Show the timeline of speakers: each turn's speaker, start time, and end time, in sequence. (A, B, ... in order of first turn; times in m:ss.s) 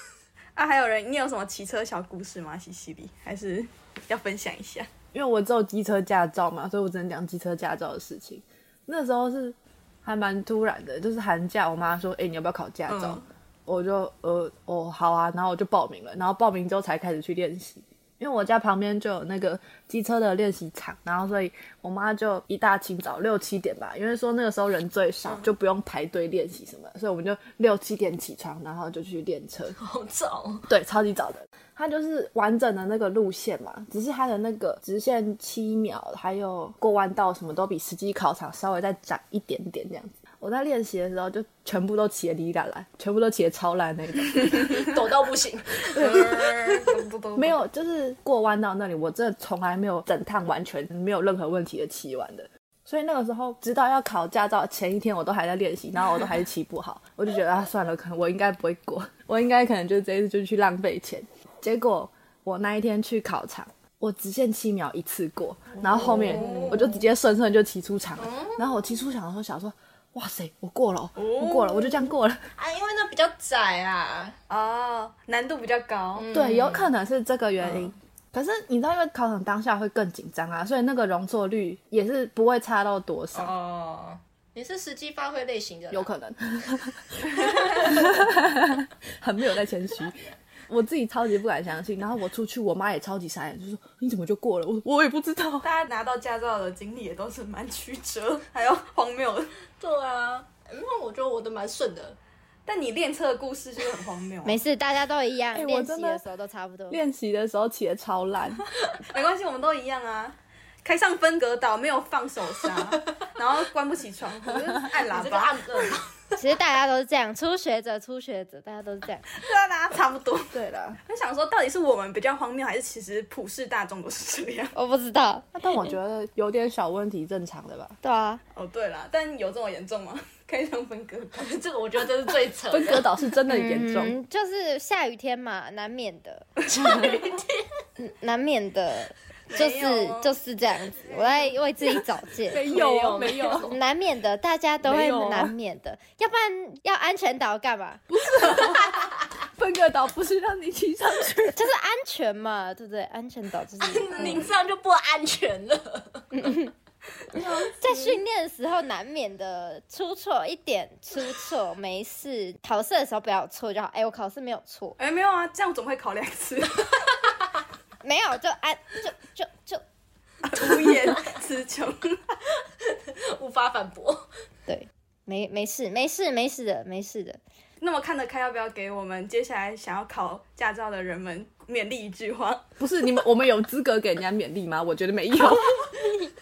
0:00.6-0:04.9 A
0:05.1-0:29.8 B
0:12.9-0:13.2 A
0:29.8-0:30.7 C
0:30.7-0:44.9 B
0:44.7-0:47.0 C
0:45.9-0:47.6 A
0:47.4-1:12.4 B
1:05.9-1:06.9 A
1:05.9-1:07.0 C
1:08.2-1:08.7 C
1:11.2-1:12.0 A
1:12.6-1:14.3 C
1:14.5-1:16.3 A
1:16.2-1:16.9 C
1:16.3-1:23.5 B
1:23.3-1:26.1 C
1:25.9-1:30.1 B
1:27.4-1:28.2 C
1:30.7-1:35.6 B
1:35.6-1:39.5 A
1:39.8-1:42.2 C
1:42.6-1:44.6 A
1:44.4-1:47.0 D
1:45.5-1:46.2 B
1:46.9-1:48.7 B
1:49.1-1:55.9 A
1:54.9-1:56.4 C
1:56.4-1:59.2 D
1:59.3-2:04.7 A
2:00.5-2:01.0 B
2:04.7-2:05.5 D
2:05.5-2:08.0 B
2:08.0-2:08.4 D
2:08.5-2:11.6 A
2:11.4-2:13.1 C
2:12.7-2:14.1 B
2:13.5-2:16.5 D
2:16.7-2:17.7 C
2:16.8-2:17.1 A
2:18.0-2:22.6 D
2:19.5-2:20.4 A
2:22.5-2:23.7 B
2:22.5-2:23.7 C
2:23.7-2:28.0 D
2:24.8-2:25.5 B
2:28.1-2:31.6 B
2:31.5-2:34.5 D
2:33.8-2:36.3 C
2:36.3-2:36.7 D
2:37.3-2:38.2 A
2:37.4-2:45.0 D
2:45.0-2:47.1 A
2:48.0-2:49.8 D
2:50.4-2:52.4 A
2:52.5-2:54.2 C
2:54.7-2:57.4 D
2:57.8-3:02.6 A
3:02.8-3:05.8 B